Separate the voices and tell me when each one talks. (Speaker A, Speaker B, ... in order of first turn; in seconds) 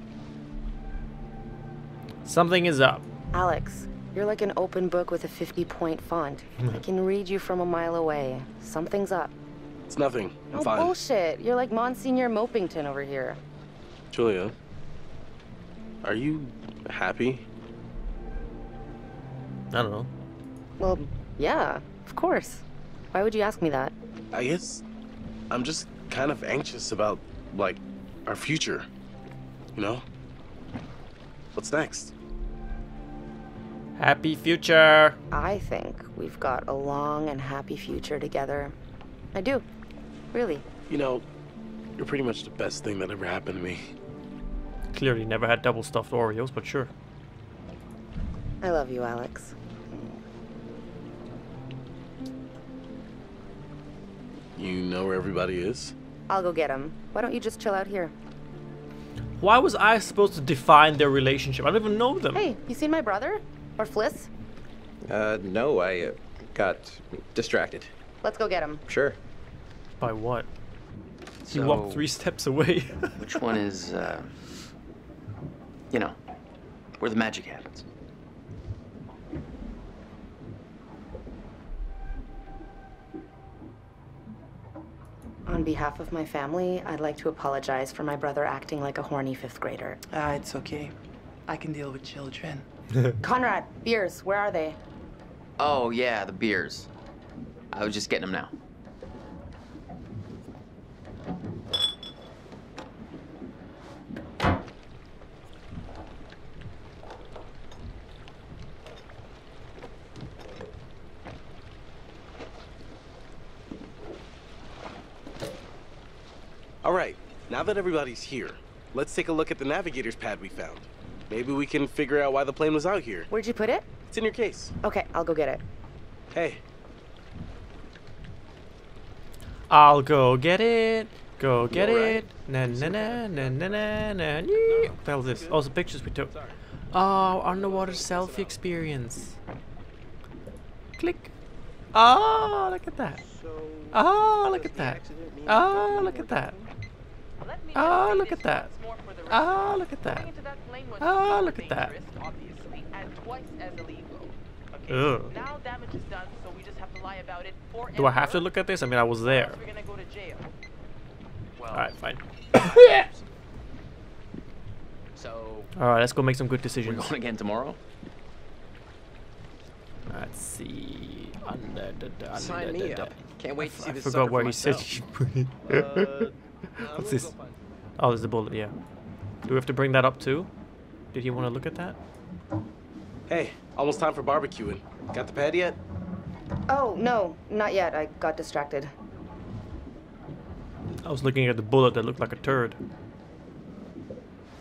Speaker A: 2.2-3.0, 19.7-20.1, 34.0-35.2, 44.9-46.9, 59.4-62.4, 70.0-70.5, 71.5-73.2, 129.7-136.3, 136.9-139.4, 141.0-141.3, 141.9-143.2, 143.9-146.6, 147.8-148.7, 149.3-150.3, 151.0-151.9, 154.9-155.3, 157.9-159.6, 161.7-163.0, 165.8-167.1, 170.1-176.3, 176.9-177.3, 178.0-178.7, 179.5-180.5, 181.1-182.0, 191.0-192.8
Speaker B: 3.3-9.3, 10.5-13.4, 20.8-23.9, 35.3-38.8, 39.3-39.6, 40.3-40.6, 48.6-50.2, 56.3-58.1, 62.3-64.3, 68.2-68.8, 85.5-90.0, 93.2-94.8, 123.3-123.8, 124.8-125.6, 186.7-188.9
Speaker C: 9.9-11.0, 14.1-14.5, 16.0-17.4, 24.3-24.8, 25.5-28.9, 29.8-30.0, 31.6-32.1, 40.9-41.2, 42.0-43.9, 54.6-55.9, 116.8-123.3, 124.1-124.8, 126.3-126.6, 131.7-134.0, 134.6-135.6, 136.3-136.6, 137.4-138.6, 143.3-143.9, 145.1-145.4, 175.7-177.6, 183.3-185.8
Speaker D: 65.1-67.9, 68.9-69.2, 144.5-146.5, 172.3-174.9
Speaker E: 71.4-72.0, 73.2-74.3, 75.9-76.2, 77.0-77.9, 95.6-96.9, 97.7-98.5, 161.6-162.0, 162.5-163.3, 165.1-165.7, 166.8-167.8
Speaker F: 90.1-90.9, 91.5-92.7, 147.4-158.5, 159.2-160.5